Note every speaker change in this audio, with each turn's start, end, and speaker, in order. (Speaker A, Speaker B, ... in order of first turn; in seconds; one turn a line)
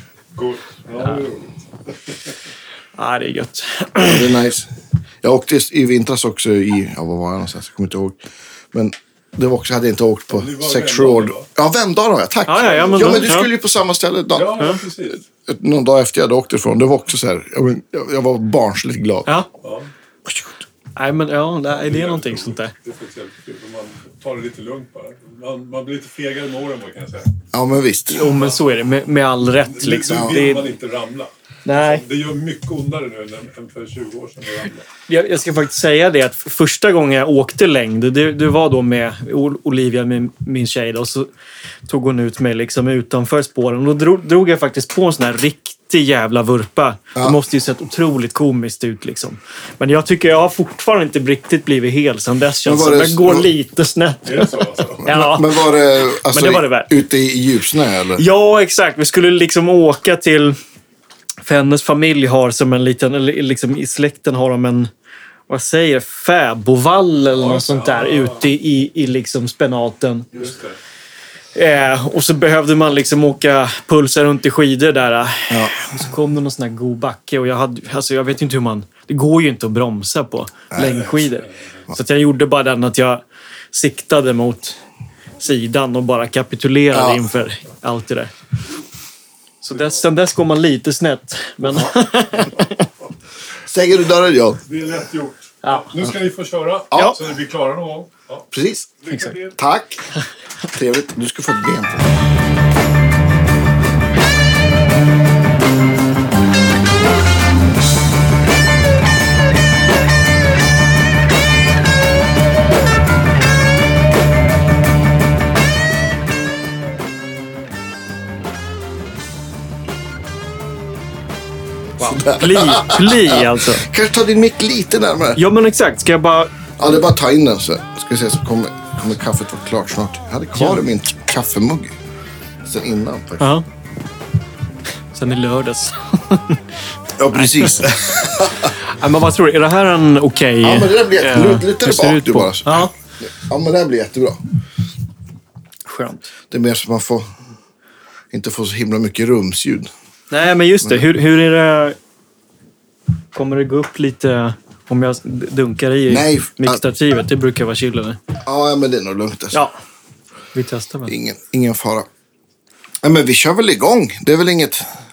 Speaker A: 0.3-1.6
Speaker B: 3.0-4.4
Speaker C: 4.1-4.7
Speaker C: 5.2-14.6
Speaker A: 10.3-11.5
Speaker B: 12.5-13.5
Speaker A: 12.6-13.3
Speaker A: 14.3-15.2
Speaker C: 15.5-19.3
Speaker A: 19.6-19.9
Speaker B: 21.0-22.7
Speaker A: 21.7-27.4
Speaker C: 27.5-28.2
Speaker B: 28.1-30.7
Speaker A: 28.2-28.6
Speaker A: 29.7-34.8
Speaker C: 30.1-30.4
Speaker B: 31.6-32.0
Speaker B: 35.1-41.3
Speaker B: 41.9-56.9
Speaker C: 52.6-53.5
Speaker A: 54.3-55.1
Speaker C: 55.0-58.2
Speaker B: 58.2-60.6
Speaker B: 61.5-64.9
Speaker B: 65.5-70.5
Speaker A: 67.3-68.4
Speaker B: 71.5-84.8
Speaker C: 75.5-75.9
Speaker C: 80.7-81.1
Speaker B: 85.4-88.3
Speaker C: 86.9-87.3
Speaker B: 89.6-92.9
Speaker C: 93.7-94.6
Speaker A: 94.7-98.4
Speaker B: 95.6-95.9
Speaker B: 97.0-97.2
Speaker C: 98.5-98.9
Speaker A: 99.0-99.6
Speaker B: 99.1-99.4
Speaker C: 99.6-100.1
Speaker C: 100.7-102.1
Speaker B: 122.0-123.9
Speaker C: 122.0-125.4
Speaker B: 125.4-126.6
Speaker C: 126.8-131.9
Speaker B: 130.6-130.8
Speaker C: 132.6-133.5
Speaker B: 133.4-133.6
Speaker B: 135.1-136.6
Speaker C: 137.2-138.8
Speaker B: 137.4-137.8
Speaker B: 138.8-142.9
Speaker C: 140.6-144.6
Speaker B: 145.9-146.3
Speaker C: 146.5-147.3
Speaker C: 148.3-149.9
Speaker B: 150.3-152.0
Speaker B: 153.3-158.2
Speaker C: 156.1-156.8
Speaker C: 158.4-159.6
Speaker B: 160.5-161.1
Speaker C: 161.1-162.1
Speaker C: 163.0-164.9